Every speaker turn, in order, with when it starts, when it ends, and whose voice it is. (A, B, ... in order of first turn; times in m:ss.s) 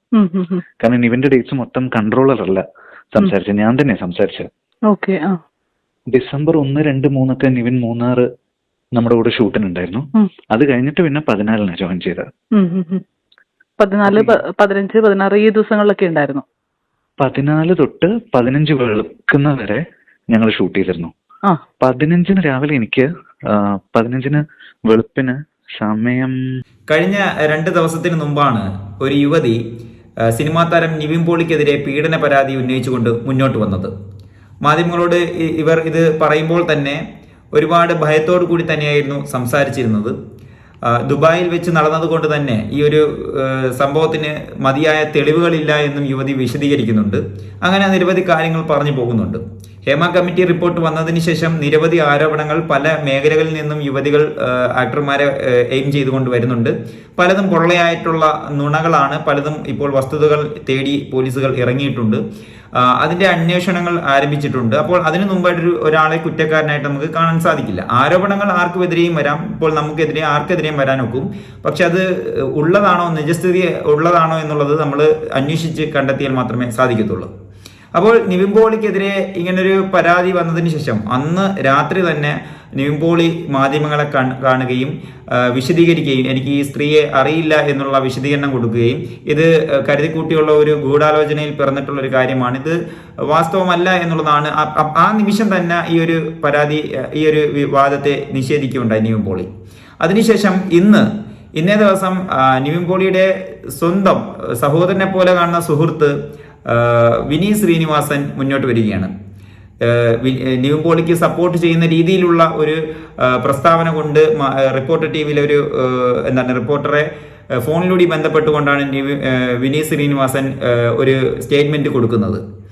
0:00.2-0:00.6 A
0:00.8-0:04.5 B
0:04.9-0:05.4 A
0:06.1-0:08.2 B
0:09.0-0:12.2 B
0:12.6-0:13.0 A
0:13.8-0:16.4 A
0:14.0-0:14.4 B
0:17.2-0:21.1 B
0:21.8-0:26.4 B
0:26.9-0:29.6 C
0:30.3-0:33.9 C
0:34.6-0:37.0 C
0:37.5-0:40.1 C
0:40.9-1:02.2 C
1:02.8-1:17.3 C
1:17.9-1:39.5 C
1:40.0-1:46.1 C
1:46.6-1:49.1 C
1:49.8-2:02.4 C